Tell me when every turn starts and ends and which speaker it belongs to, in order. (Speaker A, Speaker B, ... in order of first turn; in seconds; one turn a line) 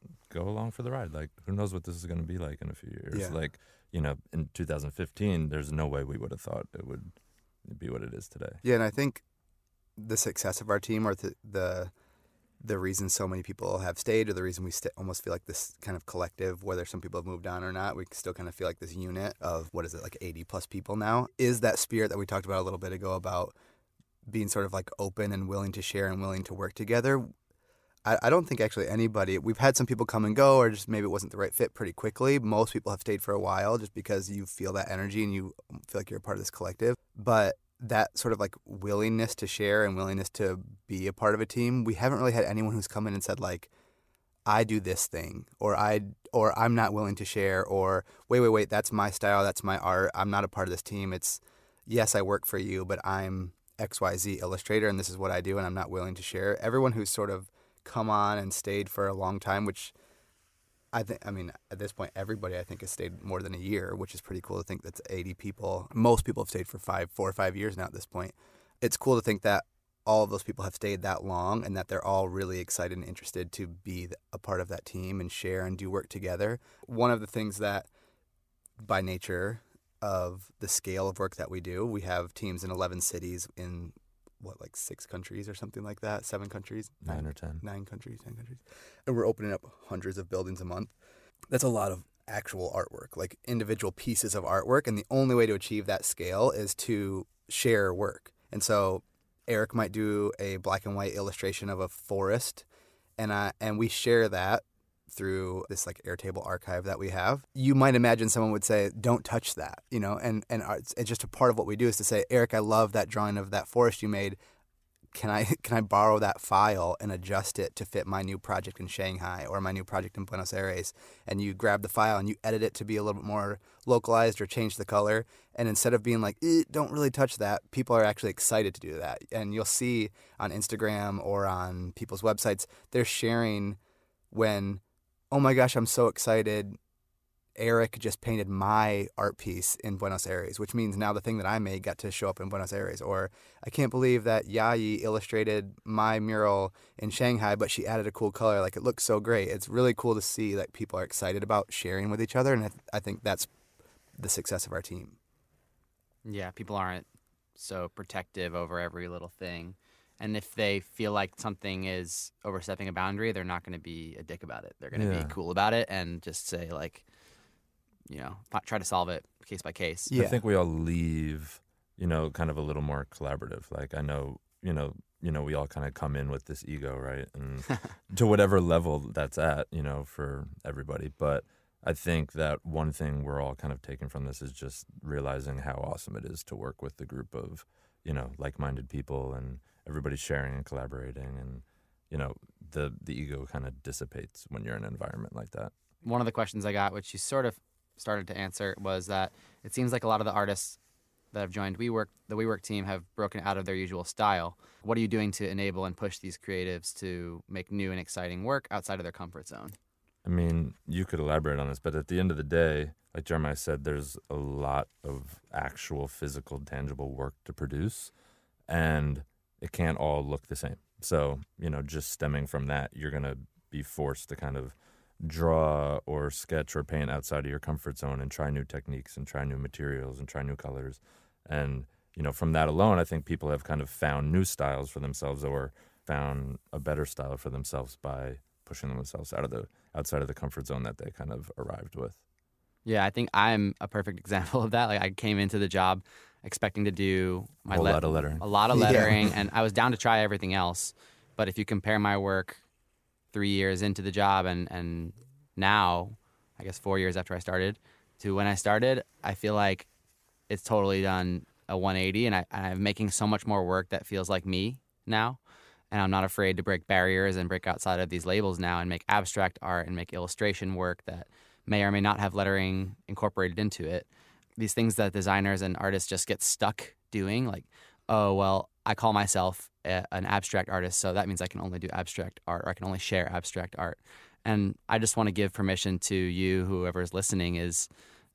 Speaker A: 0.3-7.1
Speaker A: 7.6-8.6
Speaker B: 8.6-9.2
Speaker B: 10.0-11.9
Speaker B: 12.6-23.5
Speaker B: 24.3-27.3
Speaker B: 28.1-43.7
Speaker B: 44.5-59.9
Speaker B: 60.9-77.9
Speaker B: 78.8-90.9
Speaker A: 87.0-87.6
Speaker B: 91.5-102.7
Speaker B: 103.2-114.4
Speaker B: 115.1-133.8
Speaker B: 134.3-136.8
Speaker B: 137.6-153.5
Speaker B: 154.2-155.2
Speaker C: 156.2-167.0
Speaker A: 164.9-165.3
Speaker C: 168.1-170.1
Speaker B: 170.1-170.4
Speaker A: 170.1-195.7
Speaker C: 196.0-200.8
Speaker C: 201.3-209.8
Speaker A: 210.2-218.1
Speaker A: 218.7-242.2
Speaker C: 242.8-252.6
Speaker A: 247.7-249.2
Speaker B: 248.7-249.1
Speaker C: 253.3-259.9
Speaker C: 260.5-265.4
Speaker C: 265.9-287.9